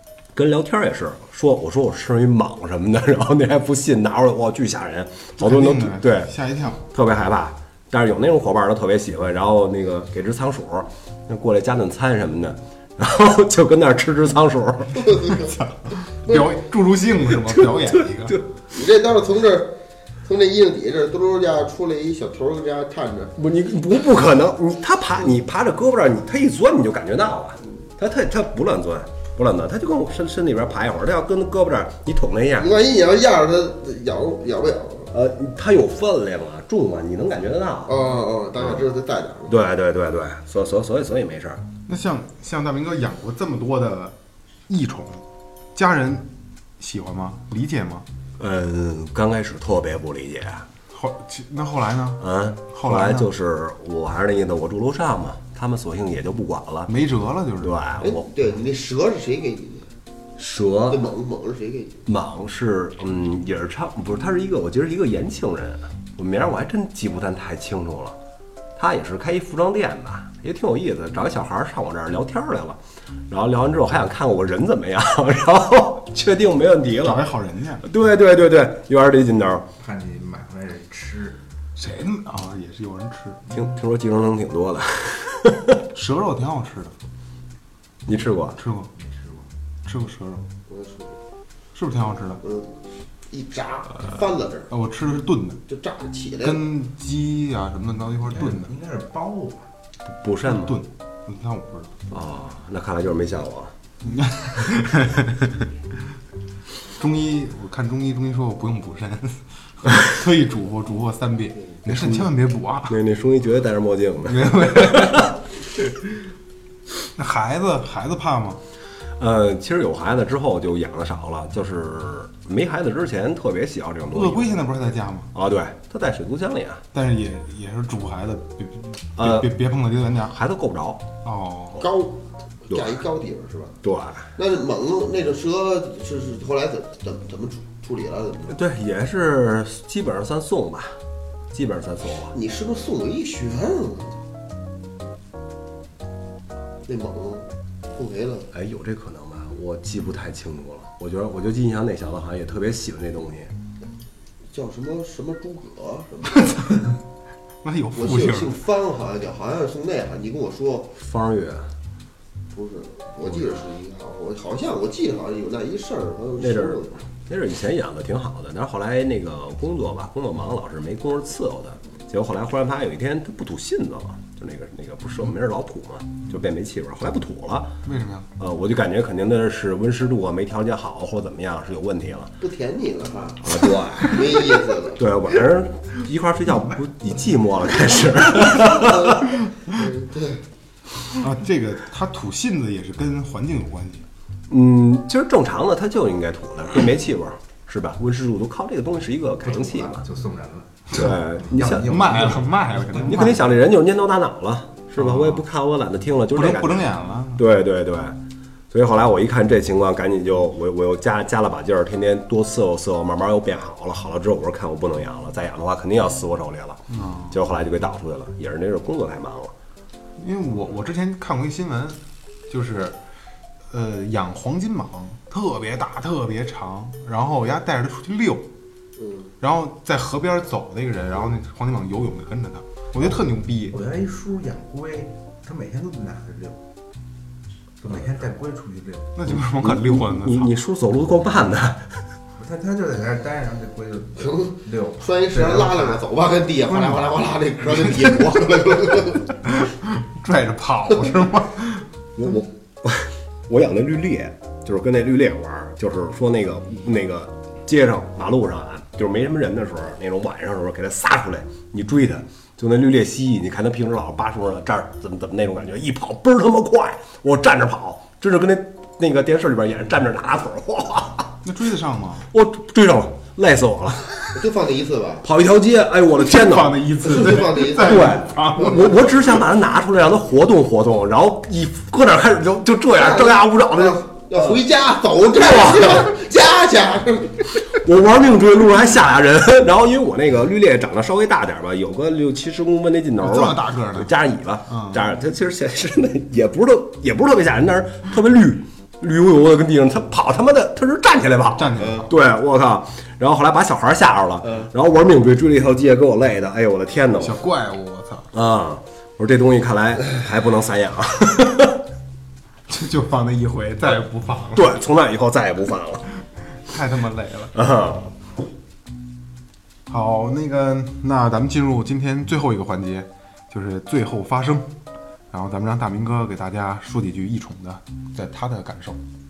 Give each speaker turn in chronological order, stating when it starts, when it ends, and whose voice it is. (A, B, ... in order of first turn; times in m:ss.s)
0:00.4-0:06.3 A
0:05.4-0:06.8 B
0:06.9-0:15.1 A
0:14.9-0:15.6 C
0:15.4-0:18.4 B
0:17.5-0:18.4 A
0:18.7-0:23.4 C
0:23.4-0:32.7 A
0:32.6-0:35.1 C
0:35.1-0:38.0 A
0:37.9-0:39.5 C
0:38.6-0:38.9 A
0:39.5-0:41.6 A
0:41.9-0:44.2 B
0:44.7-0:45.2 B
0:45.7-0:46.3 B
0:46.8-0:48.1 B
0:48.4-0:50.7 A
0:50.9-0:53.3 B
0:52.2-0:56.9 A
0:56.9-0:57.8 B
0:57.6-0:58.3 A
0:58.0-0:59.9 C
1:00.4-1:01.0 A
1:00.9-1:02.0 C
1:02.1-1:08.2 A
1:08.8-1:12.8 A
1:13.3-1:17.2 A
1:17.0-1:17.8 B
1:17.8-1:19.6 A
1:19.8-1:21.4 D
1:21.8-1:23.4 B
1:23.5-1:25.8 A
1:25.9-1:26.9 B
1:28.1-1:28.6 A
1:28.6-1:28.9 B
1:29.0-1:29.5 D
1:29.8-1:30.4 B
1:30.7-1:31.2 C
1:31.8-1:32.4 B
1:32.4-1:32.8 C
1:33.3-1:34.7 C
1:34.7-1:35.6 B
1:35.7-1:36.6 C
1:36.4-1:38.7 B
1:38.2-1:39.7 D
1:40.1-1:40.8 A
1:40.5-1:42.0 B
1:42.1-1:43.7 A
1:44.0-1:45.7 B
1:47.0-1:53.0 B
1:51.9-1:52.3 A
1:52.9-1:55.4 A
1:54.2-1:55.4 B
1:57.2-1:58.6 B
1:59.2-2:04.6 A
2:04.1-2:05.3 B
2:05.3-2:06.8 A
2:06.9-2:10.4 B
2:09.2-2:09.5 A
2:10.3-2:11.1 A
2:11.2-2:11.9 B
2:11.8-2:13.8 C
2:12.7-2:13.0 A
2:13.8-2:14.3 A
2:14.4-2:18.6 C
2:18.5-2:21.0 A
2:21.5-2:22.3 A
2:22.3-2:24.2 C
2:26.9-2:28.5 C
2:28.5-2:33.5 A
2:34.5-2:36.7 C
2:37.6-2:38.5 B
2:37.9-2:40.9 C
2:41.0-2:41.7 A
2:42.5-2:47.0 C
2:46.4-2:57.7 A
2:57.8-2:58.3 B
2:58.4-3:02.3 A
3:02.4-3:05.0 C
3:03.4-3:04.4 A
3:05.0-3:09.3 A
3:06.5-3:06.8 D
3:08.6-3:10.4 C
3:11.2-3:14.0 B
3:14.5-3:20.0 A
3:19.4-3:23.4 D
3:20.9-3:22.5 A
3:21.8-3:23.4 B
3:23.0-3:28.2 A
3:25.0-3:25.4 B
3:26.3-3:27.4 B
3:28.7-3:39.5 A
3:36.9-3:37.4 B
3:40.2-3:43.0 B
3:43.7-3:48.5 B
3:49.0-3:49.3 C
3:49.4-3:53.8 B
3:53.0-3:56.6 D
3:57.8-3:59.2 D
3:59.2-4:00.5 B
3:59.3-4:02.0 A
4:02.4-4:06.0 D
4:04.2-4:09.3 C
4:06.7-4:07.0 B
4:09.4-4:11.9 B
4:12.2-4:31.4 A
4:31.4-4:32.3 B
4:32.3-4:34.4 A
4:34.4-4:35.2 C
4:35.2-4:36.9 A
4:36.2-4:39.1 B
4:37.0-4:38.9 C
4:37.5-4:44.6 A
4:43.0-4:47.6 C
4:45.3-4:46.1 A
4:47.7-5:07.4 A
4:53.2-4:54.1 B
4:54.7-4:55.0 B
5:01.6-5:02.1 B
5:01.8-5:02.1 C
5:04.4-5:04.7 C
5:07.2-5:08.3 B
5:08.3-5:11.8 A
5:12.7-5:14.8 B
5:14.6-5:16.1 A
5:16.7-5:17.6 B
5:17.5-5:18.1 A
5:19.9-5:24.7 B
5:25.3-5:29.0 B